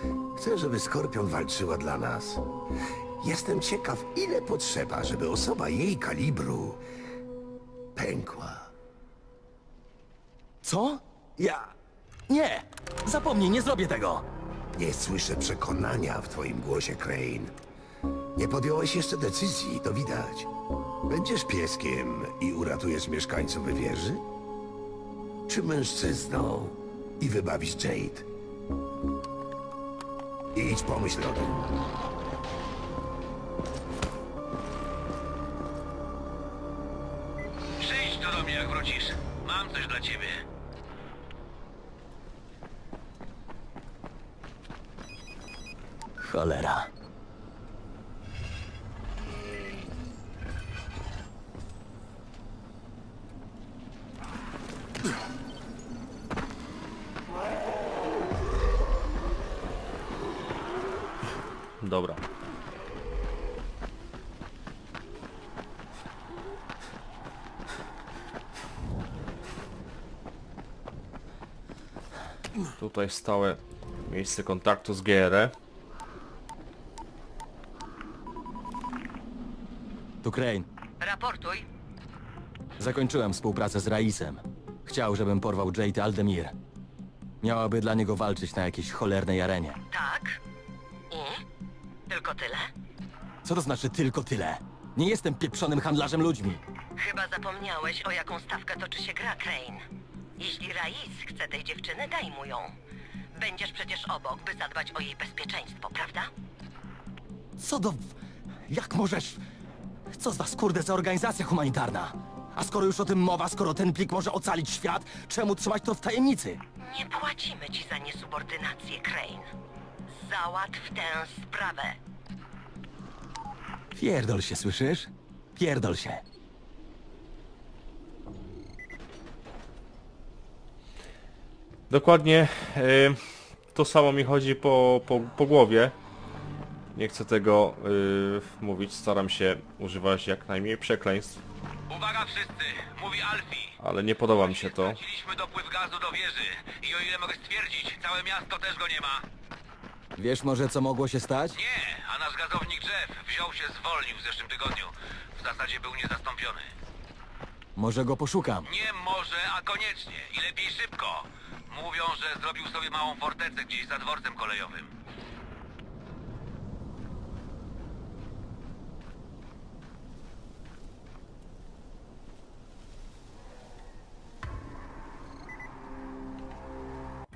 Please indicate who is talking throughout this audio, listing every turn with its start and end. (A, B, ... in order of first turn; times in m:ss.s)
0:00.4-0:02.4 A
0:03.2-0:06.8 A
0:08.0-0:08.7 A
0:10.6-0:11.7 B
0:12.3-0:14.3 B
0:14.8-0:17.5 A
0:18.4-0:20.5 A
0:21.1-0:24.2 A
0:25.5-0:28.3 A
0:30.6-0:31.6 A
0:37.8-0:40.4 C
0:46.2-0:46.9 B
1:01.8-1:02.2 D
1:12.8-1:15.6 D
1:20.2-1:20.7 B
1:21.0-1:21.7 E
1:22.8-1:26.5 B
1:27.4-1:29.8 B
1:29.9-1:30.4 E
1:31.1-1:31.4 E
1:32.1-1:32.7 E
1:33.4-1:36.6 B
1:37.0-1:39.8 E
1:40.4-1:42.8 E
1:43.3-1:46.3 E
1:47.6-1:48.2 B
1:48.7-1:49.4 B
1:50.1-1:56.6 B
1:56.8-1:59.5 E
2:00.2-2:02.0 E
2:04.0-2:06.2 B
2:11.9-2:16.0 D
2:16.9-2:21.4 D
2:21.9-2:23.8 C
2:23.8-2:25.0 D
2:24.4-2:29.2 C
2:30.2-2:31.6 B
2:31.5-2:36.7 C
2:37.8-2:38.7 B
2:38.6-2:44.9 C